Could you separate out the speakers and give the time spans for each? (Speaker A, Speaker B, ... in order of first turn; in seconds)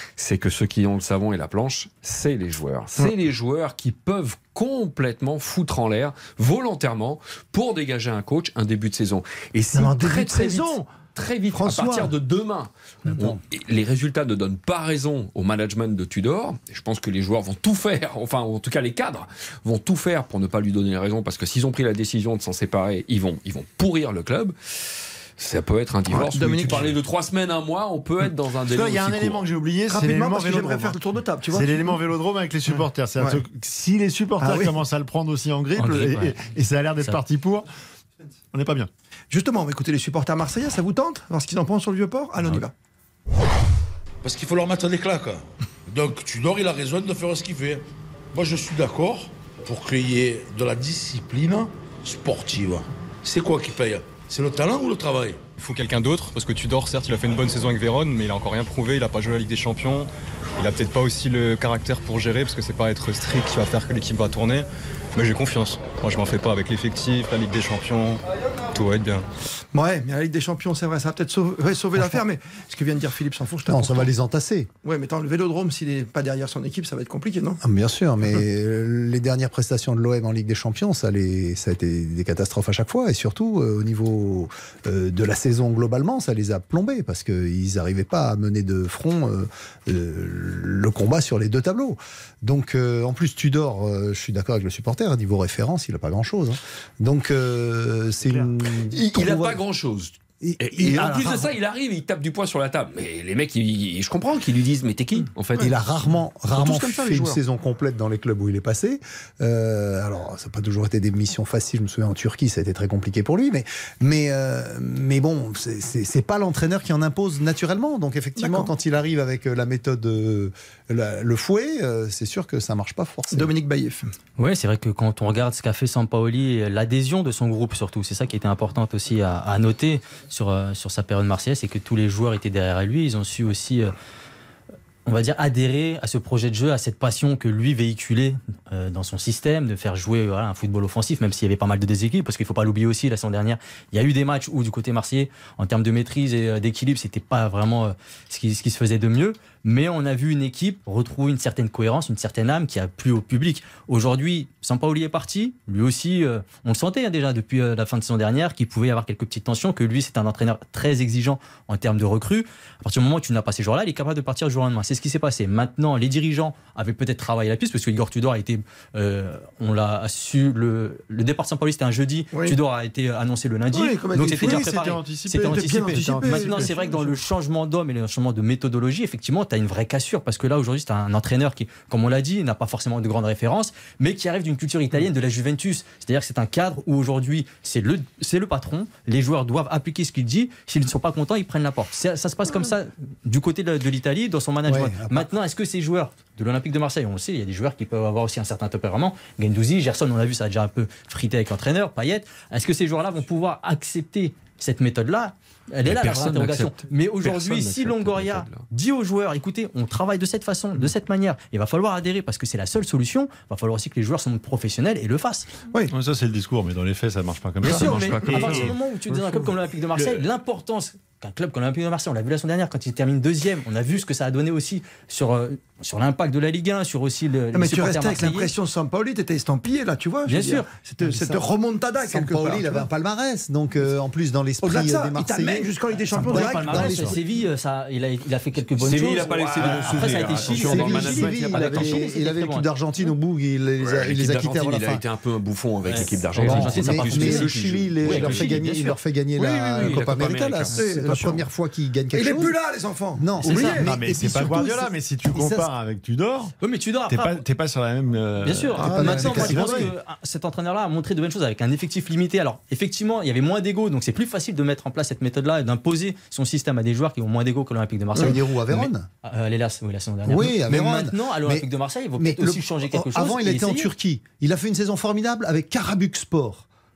Speaker A: 0.2-24.6, 25.4-29.5, 98.9-105.8, 106.5-107.4, 205.8-208.6, 217.7-218.7, 238.8-241.9, 243.8-248.7, 249.4-250.8
Speaker B: 9.7-11.0, 11.5-12.1, 26.1-26.9, 29.9-32.0, 32.7-33.4, 34.4-34.8, 39.3-42.7, 69.7-74.1, 74.8-77.6, 118.4-118.7, 123.3-124.1, 172.3-172.6, 173.7-174.8, 175.4-177.1, 217.6-218.4, 227.5-232.9, 234.6-237.2, 250.7-251.4, 252.1-253.9, 258.8-259.7
Speaker C: 28.7-37.7, 38.5-38.9, 174.3-176.8, 215.9-220.2, 239.6-240.9, 253.4-256.5, 257.1-259.9
Speaker D: 35.8-36.4, 124.4-133.9, 135.1-215.5, 217.6-228.5, 230.3-230.7, 236.1-242.7, 245.9-249.0, 256.6-257.4, 258.4-273.9
Speaker E: 44.2-47.8, 48.3-55.5
Speaker F: 55.5-69.3
Speaker G: 73.7-74.7, 77.6-99.6, 100.4-101.5, 105.6-123.5, 194.7-195.3, 231.1-231.5, 232.0-237.2, 240.5-245.0, 245.9-252.6, 253.2-255.7, 258.9-259.9, 268.2-269.1, 270.2-276.7